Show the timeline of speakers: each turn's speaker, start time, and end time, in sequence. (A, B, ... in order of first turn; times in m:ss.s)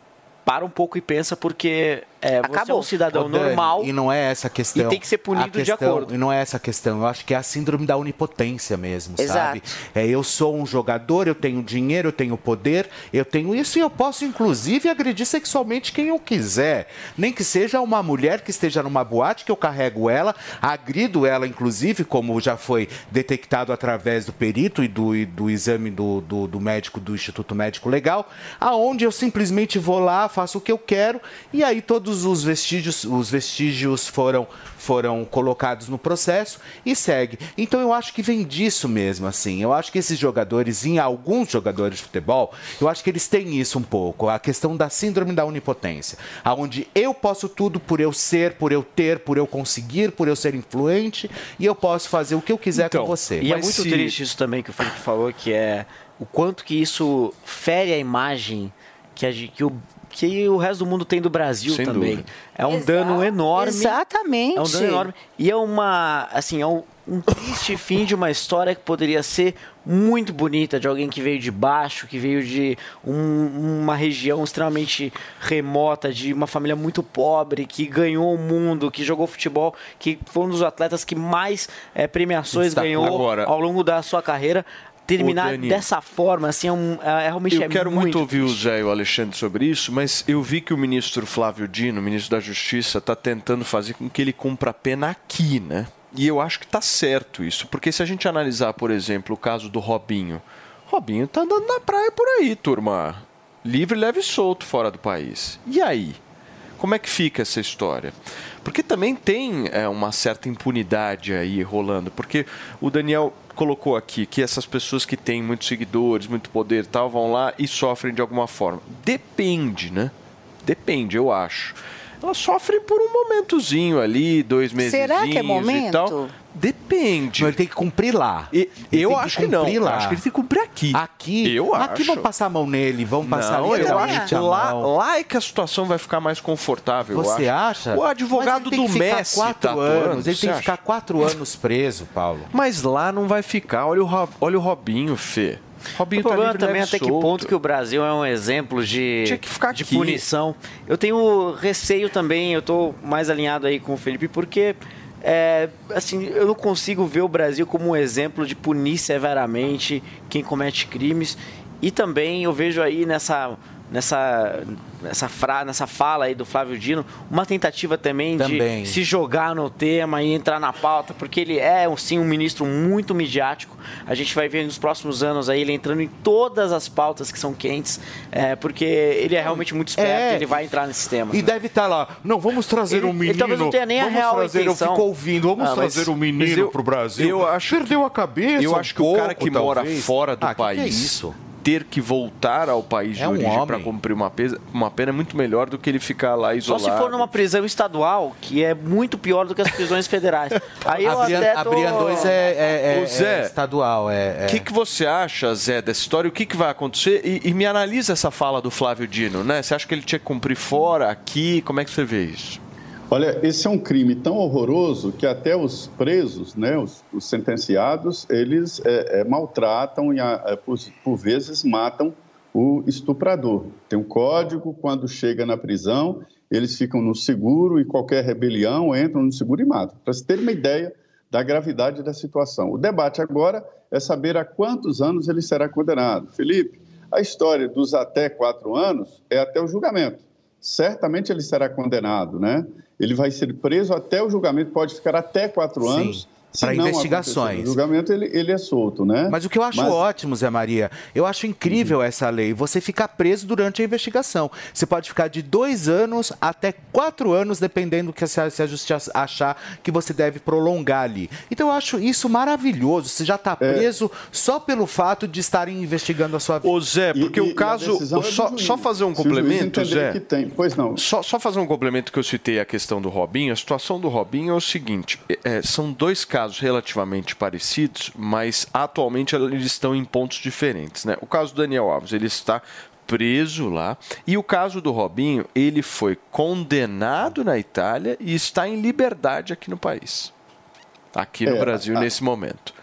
0:00.4-0:03.9 A
0:02.5-0:02.9 B
0:03.1-0:54.1 C
0:04.7-0:06.1 A
0:09.2-0:09.6 B
0:52.8-0:53.2 D
0:53.4-1:04.0 A
1:01.7-1:02.3 D
1:02.8-1:05.1 B
1:04.5-1:28.6 A
1:22.6-1:23.5 D
1:22.8-1:23.2 C
1:25.2-1:25.8 D
1:27.5-1:46.2 D
1:46.8-2:00.1 D
2:00.6-2:07.6 D
2:04.8-2:06.2 B
2:07.4-2:10.2 C
2:08.5-2:12.3 D
2:10.9-2:14.9 C
2:13.2-2:20.8 D
2:13.8-2:14.2 B
2:17.1-2:22.5 C
2:22.5-2:27.5 D
2:26.2-3:01.5 A
2:29.2-2:30.2 D
2:48.4-2:49.0 C
3:00.0-3:00.6 C
3:01.3-3:11.4 C
3:02.9-3:05.0 A
3:05.6-3:07.9 D
3:08.6-3:17.3 D
3:13.2-3:13.9 C
3:16.7-3:22.4 A
3:21.0-3:24.7 C
3:21.0-3:21.4 D
3:22.9-3:23.5 D
3:24.4-3:32.6 D
3:33.1-4:10.0 E
4:05.8-4:07.8 C
4:09.3-4:26.7 C
4:23.6-4:23.9 E
4:26.6-4:30.2 D
4:27.2-4:31.0 E
4:31.0-4:50.3 D
4:51.1-4:52.7 D
4:51.5-4:52.1 E